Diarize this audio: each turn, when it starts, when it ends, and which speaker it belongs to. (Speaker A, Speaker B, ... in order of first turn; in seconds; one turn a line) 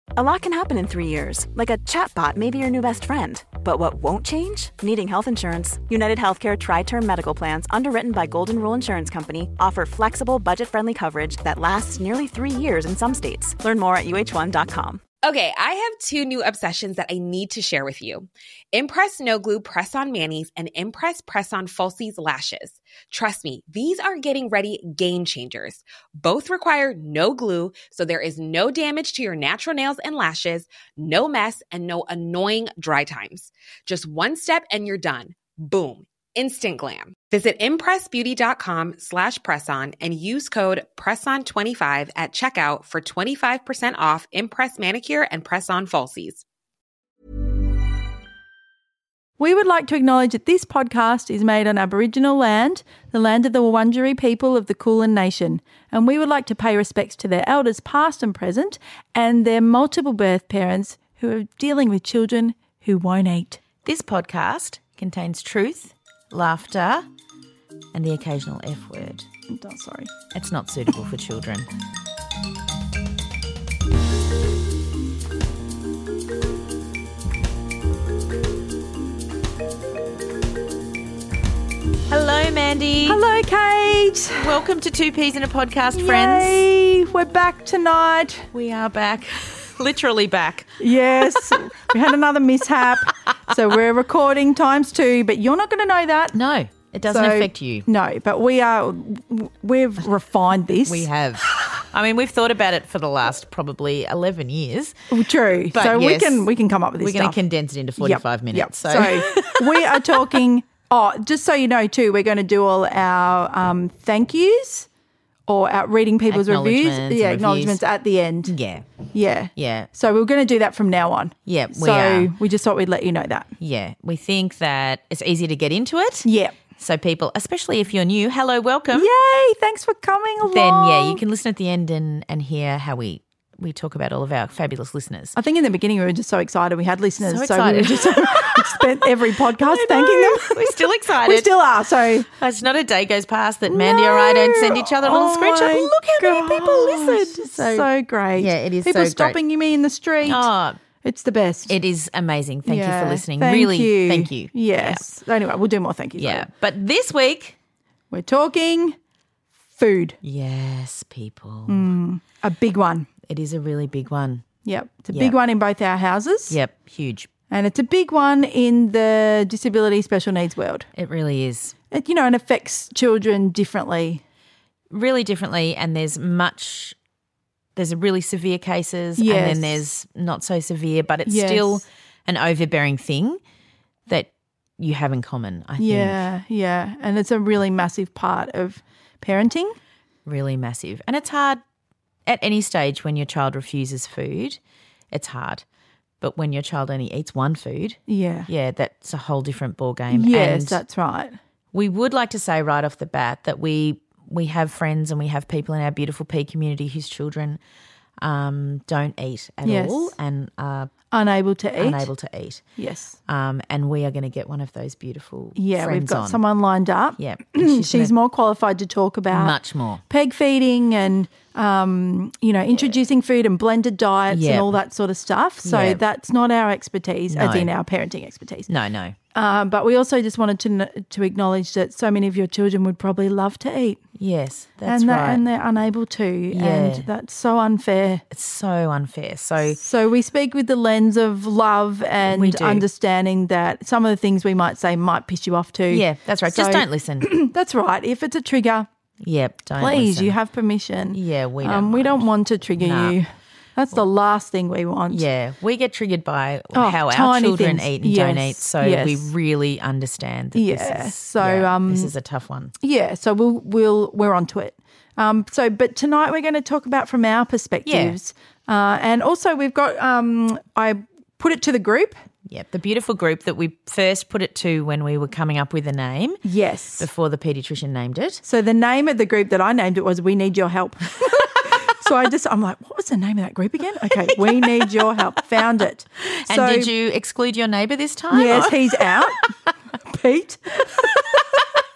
Speaker A: 0.2-15.0
Speaker B: 15.2-46.4
Speaker C: 49.4-63.6
Speaker D: 63.8-67.0
Speaker D: 67.9-69.3
Speaker C: 69.5-70.1
Speaker D: 70.3-71.7
Speaker D: 82.1-83.2
Speaker C: 83.0-84.6
Speaker D: 84.3-86.7
Speaker C: 85.9-88.5
Speaker D: 88.5-91.8
Speaker C: 90.8-96.4
Speaker D: 96.3-97.9
Speaker C: 97.1-101.1
Speaker D: 100.8-105.0
Speaker C: 105.1-107.4
Speaker D: 105.7-110.4
Speaker C: 108.0-114.9
Speaker C: 115.5-118.5
Speaker D: 116.3-117.8
Speaker D: 118.5-118.9
Speaker C: 119.1-123.5
Speaker D: 119.6-119.9
Speaker D: 121.5-122.3
Speaker D: 123.6-129.1
Speaker C: 126.2-126.6
Speaker C: 128.9-131.2
Speaker D: 130.4-135.3
Speaker C: 135.3-142.3
Speaker D: 137.2-141.6
Speaker D: 142.3-149.4
Speaker C: 143.7-150.5
Speaker D: 150.2-150.8
Speaker C: 151.0-151.8
Speaker D: 151.7-155.1
Speaker C: 152.7-156.5
Speaker D: 156.2-157.6
Speaker C: 158.1-159.0
Speaker C: 159.7-160.2
Speaker D: 160.2-161.9
Speaker C: 161.7-163.1
Speaker D: 163.2-164.4
Speaker C: 164.7-166.6
Speaker D: 166.5-167.3
Speaker C: 167.5-170.9
Speaker D: 170.9-171.8
Speaker C: 171.9-174.2
Speaker D: 174.9-177.0
Speaker D: 177.8-183.4
Speaker C: 179.2-179.8
Speaker C: 181.3-181.8
Speaker D: 184.1-186.2
Speaker C: 185.8-189.8
Speaker D: 190.3-191.6
Speaker D: 192.3-194.6
Speaker D: 195.1-195.7
Speaker D: 196.2-200.8
Speaker C: 198.1-198.5
Speaker C: 200.1-201.4
Speaker D: 201.7-207.6
Speaker D: 208.2-210.9
Speaker C: 209.6-210.2
Speaker C: 211.1-212.1
Speaker D: 211.8-212.6
Speaker C: 212.8-213.2
Speaker D: 213.3-216.4
Speaker C: 215.6-219.5
Speaker D: 217.2-218.1
Speaker D: 219.3-220.0
Speaker C: 220.1-228.7
Speaker D: 224.3-224.8
Speaker D: 225.6-226.0
Speaker D: 227.3-227.7
Speaker D: 228.7-229.2
Speaker C: 229.3-234.0
Speaker D: 234.2-235.4
Speaker C: 234.9-238.2
Speaker D: 236.5-237.1
Speaker D: 238.3-239.8
Speaker C: 239.7-248.9
Speaker D: 242.2-242.8
Speaker D: 245.9-247.3
Speaker D: 249.2-250.3
Speaker C: 249.8-255.2
Speaker D: 251.1-253.2
Speaker D: 255.1-262.7
Speaker C: 256.7-259.3
Speaker C: 260.5-262.1
Speaker C: 262.8-272.2
Speaker D: 267.9-268.2
Speaker D: 272.5-276.4
Speaker C: 276.4-277.1
Speaker D: 277.0-278.4
Speaker C: 278.4-286.9
Speaker D: 284.2-285.2
Speaker D: 286.3-289.2
Speaker C: 288.3-289.5
Speaker C: 290.0-291.2